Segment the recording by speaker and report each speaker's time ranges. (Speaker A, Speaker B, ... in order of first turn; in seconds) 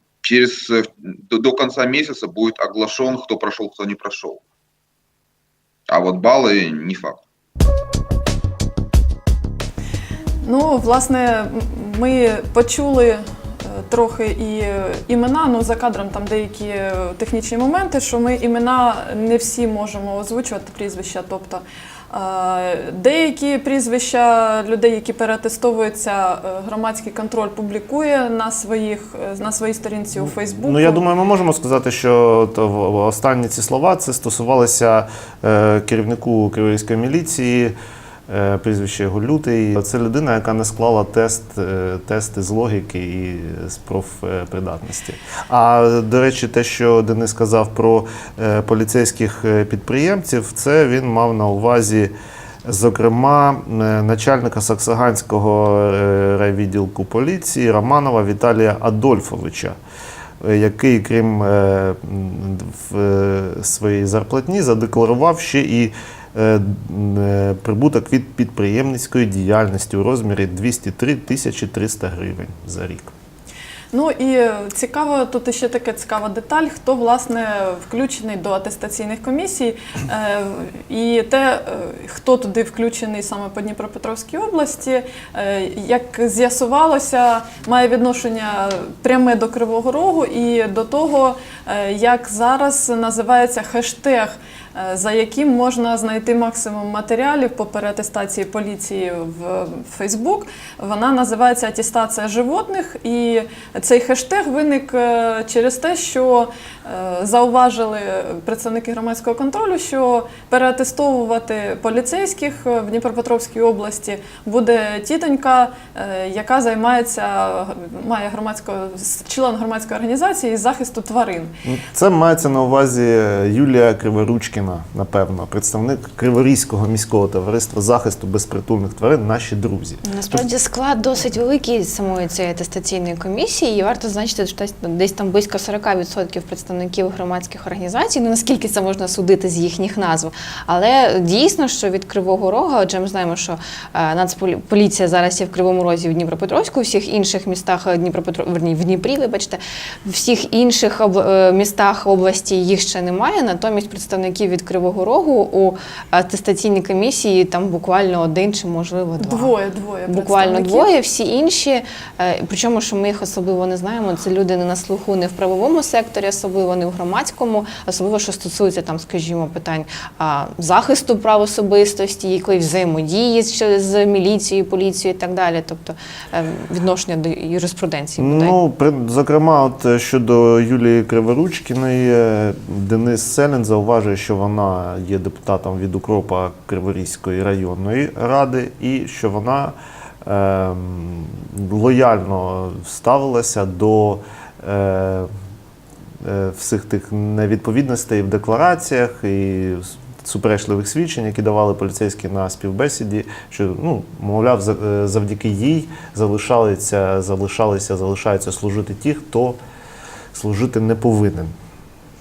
Speaker A: 0.2-4.4, 5.9-7.2
Speaker B: 10.4-31.0, 73.9-121.5, 159.2-160.9
Speaker C: 30.2-37.7, 38.3-52.1, 52.6-59.8, 60.4-73.1, 121.6-130.4, 178.2-195.3, 196.2-209.6, 210.3-211.5
Speaker D: 130.0-159.5, 160.1-178.6